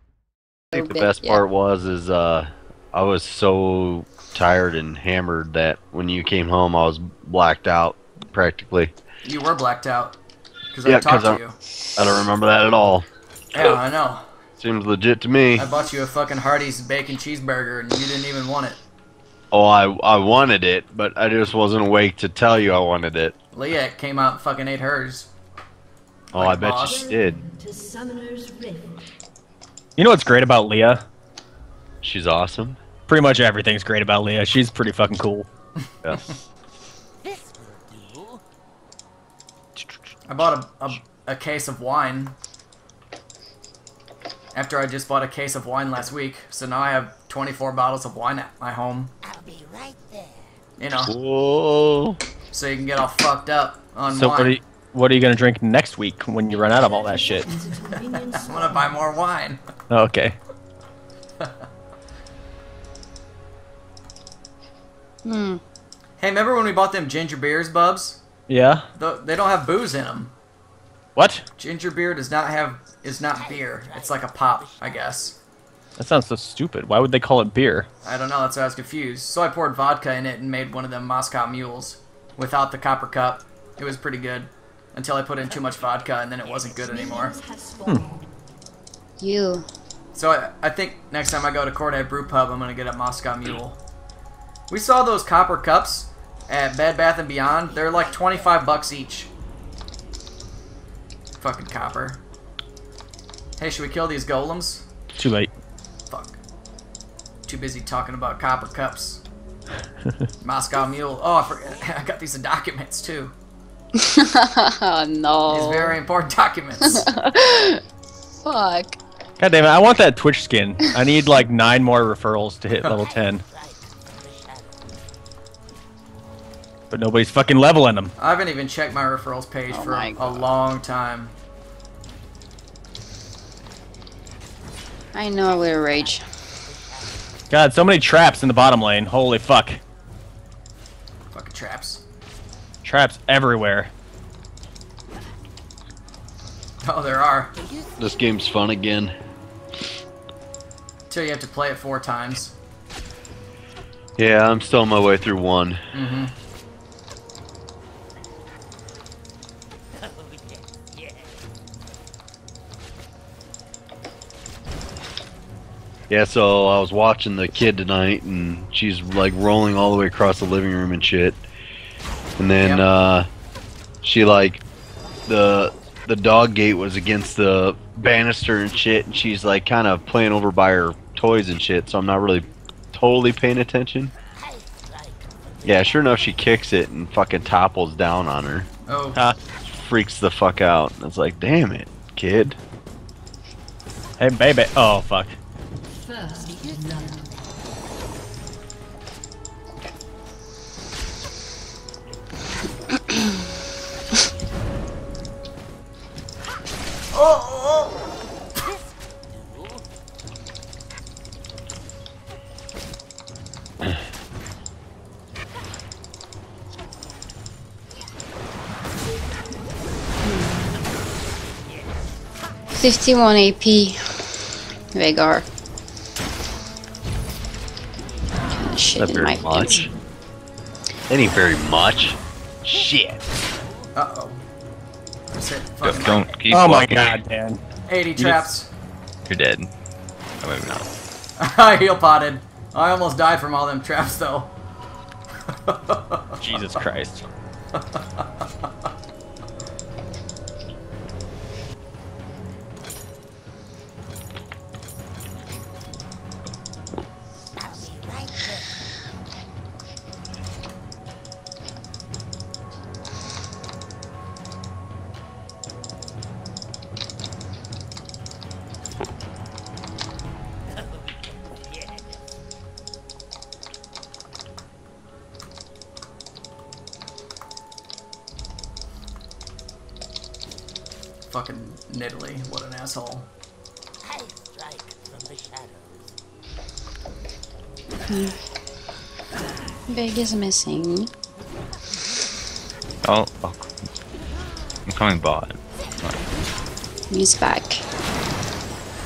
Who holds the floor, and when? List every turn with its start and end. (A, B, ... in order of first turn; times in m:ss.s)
0:00.7-0:01.4 A
0:00.7-0:08.9 B
0:09.2-0:10.2 C
0:10.7-0:11.6 C
0:10.8-0:11.4 B
0:12.0-0:13.0 B
0:13.5-0:14.2 C
0:14.6-0:15.7 B
0:15.6-0:18.8 C
0:19.5-0:23.4 B
0:23.5-0:25.3 C
0:26.3-0:27.4 B
0:26.3-0:27.0 C
0:26.8-0:29.1 D
0:30.0-0:31.0 E
0:32.0-0:32.8 B
0:33.1-0:35.5 E
0:39.8-0:40.2 E
0:40.3-0:42.3 C
0:44.5-0:49.1 C
0:50.8-0:51.1 C
0:51.1-0:52.2 B
0:52.5-0:54.6 C
0:54.1-0:57.5 E
0:56.7-0:59.0 D
0:58.2-0:59.6 C
0:59.9-1:00.4 E
1:05.2-1:05.6 A
1:06.2-1:08.2 C
1:08.5-1:08.9 E
1:09.0-1:10.3 C
1:11.2-1:11.4 E
1:11.6-1:15.4 C
1:16.0-1:17.9 E
1:18.0-1:27.3 C
1:26.7-1:28.2 D
1:29.2-1:29.7 A
1:30.1-1:33.8 C
1:34.7-1:39.3 C
1:41.4-1:42.2 C
1:43.6-1:44.8 C
1:45.2-1:45.5 E
1:46.1-1:46.4 C
1:47.4-1:49.2 C
1:50.4-1:53.3 C
1:54.0-1:56.0 A
1:55.5-1:57.1 C
1:56.8-1:57.8 A
1:58.4-1:59.0 A
1:59.4-2:03.4 E
2:06.9-2:08.1 E
2:08.2-2:11.3 C
2:09.7-2:10.5 A
2:15.2-2:16.2 A
2:17.5-2:19.8 E
2:21.3-2:22.0 C
2:22.8-2:23.9 E
2:26.8-2:27.5 C
2:28.0-2:29.1 B
2:31.1-2:32.5 C
2:34.2-2:35.8 B
2:35.9-2:36.3 C
2:46.1-2:51.4 B
2:52.4-2:53.3 B
2:54.0-2:54.6 B
2:55.3-3:04.1 B
3:05.6-3:08.7 B
3:08.9-3:09.2 C
3:09.7-3:12.6 B
3:14.2-3:15.4 E
3:15.9-3:17.4 D
3:27.1-3:28.0 C
3:40.2-3:40.6 A
3:42.8-3:44.2 A
3:44.9-3:45.4 A
3:48.5-3:49.9 A
3:49.0-3:49.8 F
3:49.1-3:49.8 B
3:51.1-3:53.2 B
3:54.0-3:54.4 C
3:55.3-3:56.3 C
3:55.8-3:57.2 F
3:56.5-3:57.6 E
3:57.9-3:58.7 C
3:58.2-3:58.5 E
3:59.3-3:59.7 F
4:00.4-4:01.0 F
4:01.4-4:04.5 C
4:05.5-4:06.8 C
4:06.4-4:07.3 E
4:07.8-4:08.2 C
4:41.3-4:43.3 C
4:48.1-4:48.4 A
4:49.9-4:51.1 A
4:53.0-4:53.8 F
4:54.9-4:56.3 F
4:57.1-4:57.8 A